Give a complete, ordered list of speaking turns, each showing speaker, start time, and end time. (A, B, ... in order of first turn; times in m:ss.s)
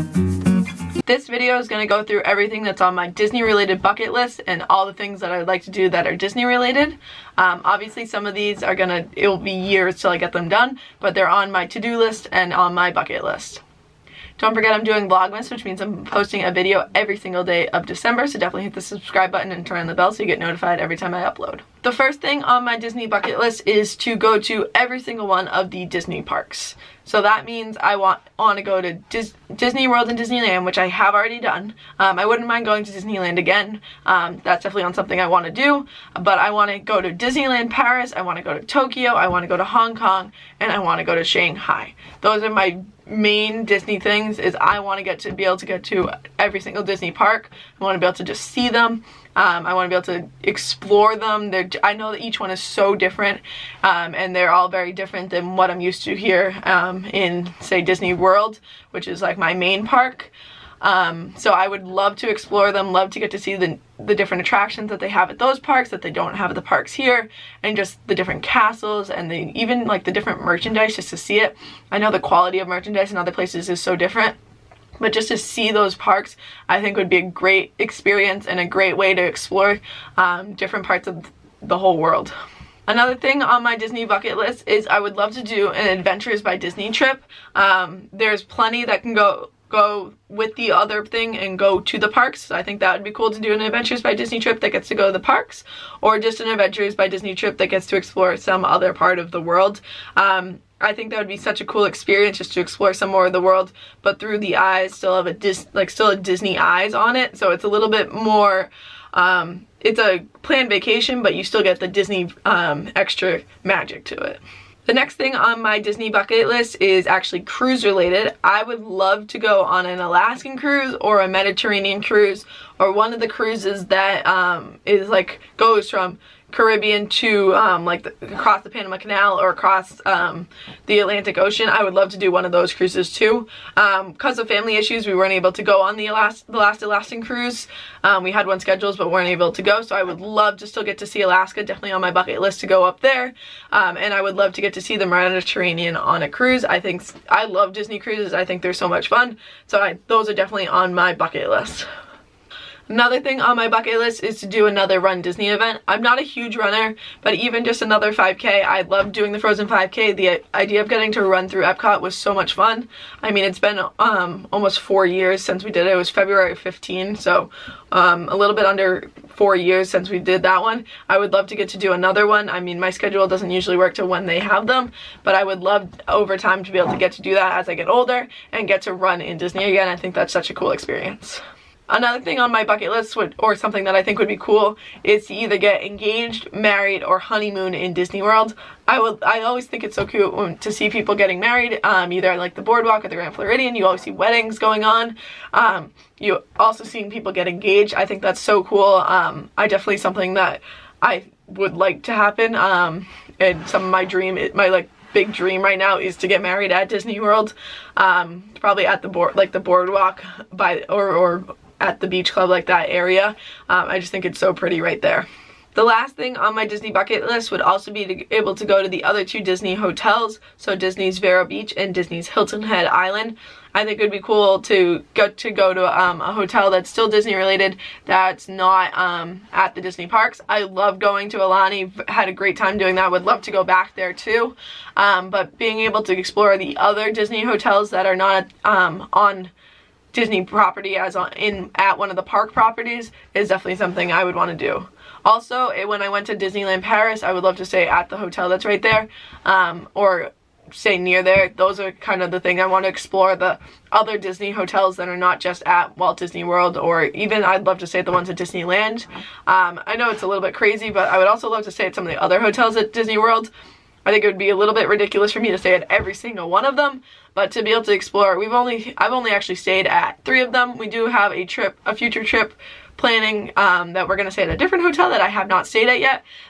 0:01.0-0:13.6 A
0:14.4-1:14.4 A
1:15.0-1:22.3 A
1:22.9-2:31.8 A
2:32.9-3:59.5 A
4:00.1-4:23.5 A
4:24.0-4:36.2 A